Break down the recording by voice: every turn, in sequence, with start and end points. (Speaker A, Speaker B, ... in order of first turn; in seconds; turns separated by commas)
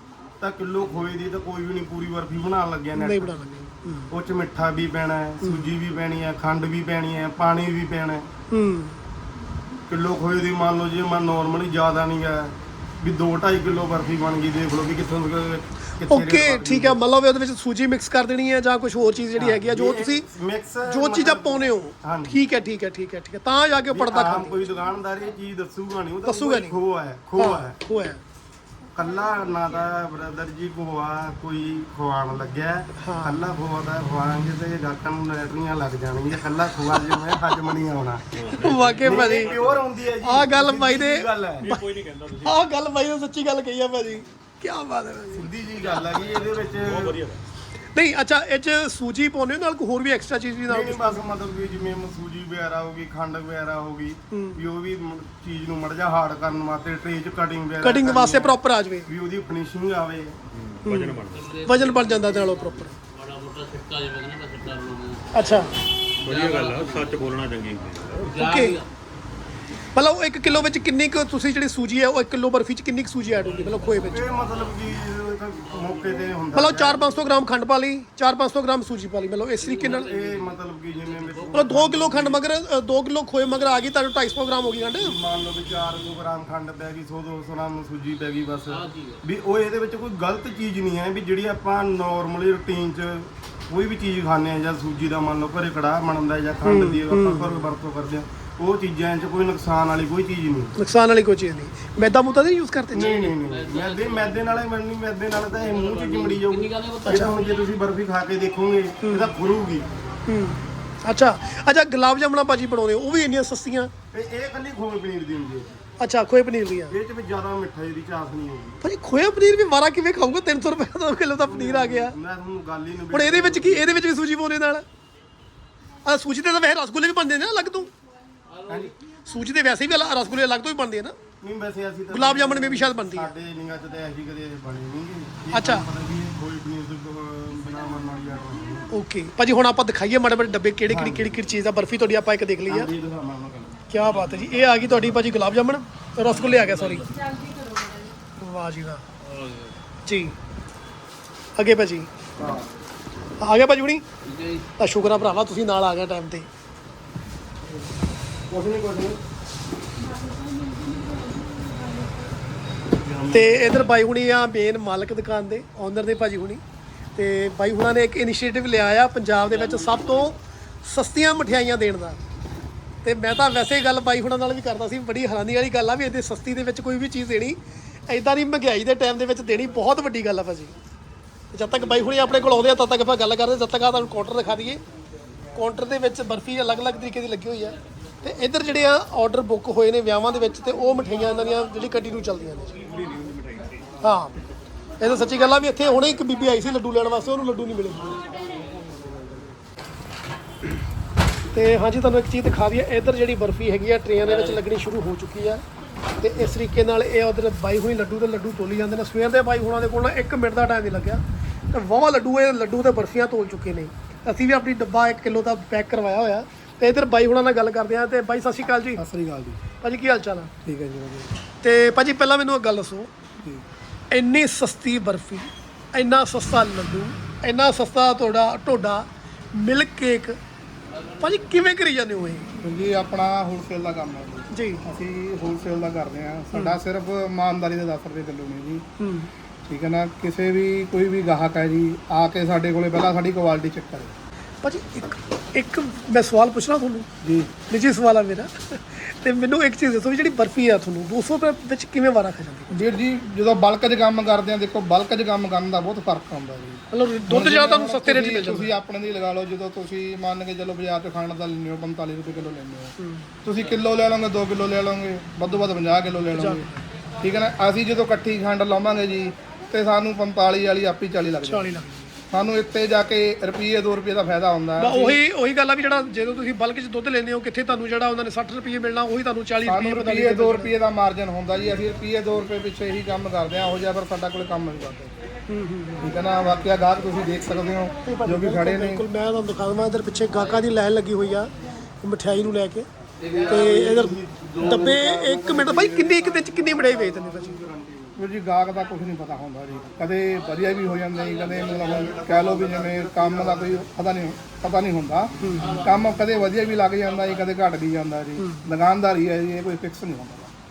Speaker A: 0.4-3.4, Speaker B: 2.9-4.1, Speaker A: 4.1-8.3, Speaker B: 5.4-5.7, Speaker B: 8.5-8.9, Speaker A: 9.9-17.0, Speaker B: 16.1-20.3, Speaker A: 19.4-22.4, Speaker B: 20.9-24.6, Speaker A: 23.9-27.8, Speaker B: 26.2-26.8, Speaker B: 27.4-28.2, Speaker A: 28.9-38.4, Speaker B: 33.0-33.4, Speaker B: 37.0-37.3, Speaker C: 38.4-39.9, Speaker B: 38.5-39.6, Speaker A: 39.0-41.8, Speaker B: 40.2-41.8, Speaker C: 41.7-42.5, Speaker B: 42.4-45.5, Speaker A: 45.3-47.3, Speaker D: 45.8-46.2, Speaker C: 46.4-47.4, Speaker B: 47.9-51.2, Speaker A: 50.7-60.4, Speaker B: 54.3-54.6, Speaker B: 57.8-59.1, Speaker C: 60.5-61.6, Speaker B: 60.8-62.9, Speaker D: 61.3-65.3, Speaker B: 65.3-65.7, Speaker C: 66.2-68.3, Speaker D: 66.2-67.2, Speaker B: 68.3-68.8, Speaker D: 68.3-68.9, Speaker B: 69.9-74.3, Speaker D: 73.7-74.8, Speaker A: 74.1-77.0, Speaker D: 75.7-76.2, Speaker B: 76.5-80.1, Speaker D: 79.6-82.0, Speaker A: 79.9-82.4, Speaker B: 81.5-85.2, Speaker A: 84.9-100.7, Speaker D: 88.7-89.2, Speaker B: 96.6-97.6, Speaker B: 100.8-103.3, Speaker A: 102.9-109.9, Speaker D: 103.0-104.6, Speaker D: 105.5-107.4, Speaker B: 107.1-107.3, Speaker B: 109.0-109.3, Speaker B: 110.3-113.9, Speaker A: 114.1-115.7, Speaker B: 116.0-117.0, Speaker A: 116.9-118.8, Speaker B: 118.8-122.1, Speaker A: 121.4-124.0, Speaker B: 123.1-124.8, Speaker B: 126.0-127.9, Speaker D: 128.5-128.9, Speaker A: 128.7-128.9, Speaker B: 129.3-131.2, Speaker A: 131.4-138.9, Speaker B: 132.1-133.3, Speaker B: 135.5-135.9, Speaker B: 138.9-142.9, Speaker A: 140.9-141.3, Speaker A: 142.7-143.8, Speaker B: 143.9-147.1, Speaker D: 146.2-147.4, Speaker B: 148.4-149.0, Speaker D: 149.2-149.7, Speaker B: 150.1-150.3, Speaker B: 151.6-152.1, Speaker B: 153.4-154.0, Speaker D: 154.2-154.7, Speaker B: 154.8-156.5, Speaker A: 158.5-159.2, Speaker D: 163.0-163.9, Speaker B: 163.3-166.6, Speaker B: 167.2-172.2, Speaker D: 169.4-170.3, Speaker B: 173.0-180.7, Speaker B: 181.5-184.8, Speaker B: 185.5-192.7, Speaker C: 192.9-193.9, Speaker B: 194.0-194.3, Speaker B: 195.0-198.2, Speaker B: 201.5-205.6, Speaker D: 204.3-204.6, Speaker B: 206.2-219.0, Speaker E: 219.0-219.6, Speaker B: 219.8-220.5, Speaker E: 220.6-221.3, Speaker B: 221.6-223.1, Speaker B: 224.1-230.4, Speaker D: 230.9-231.4, Speaker B: 231.2-232.5, Speaker E: 232.6-238.8, Speaker B: 234.5-234.8, Speaker B: 236.5-236.8, Speaker B: 239.0-239.3, Speaker E: 239.7-244.1, Speaker B: 244.6-247.1, Speaker E: 247.2-247.5, Speaker B: 247.7-252.8, Speaker E: 252.7-266.7, Speaker B: 256.9-258.7, Speaker B: 263.0-263.3, Speaker B: 266.3-266.8, Speaker E: 267.2-271.7, Speaker B: 271.4-271.9, Speaker E: 272.3-275.2, Speaker B: 274.8-280.7, Speaker E: 279.6-285.1, Speaker B: 285.5-286.1, Speaker E: 286.0-289.0, Speaker B: 288.0-291.5, Speaker B: 292.0-292.9, Speaker A: 293.3-298.2, Speaker B: 293.5-297.7, Speaker E: 298.1-310.5, Speaker A: 301.4-303.9, Speaker B: 305.4-305.7, Speaker D: 305.6-306.7, Speaker B: 308.4-308.6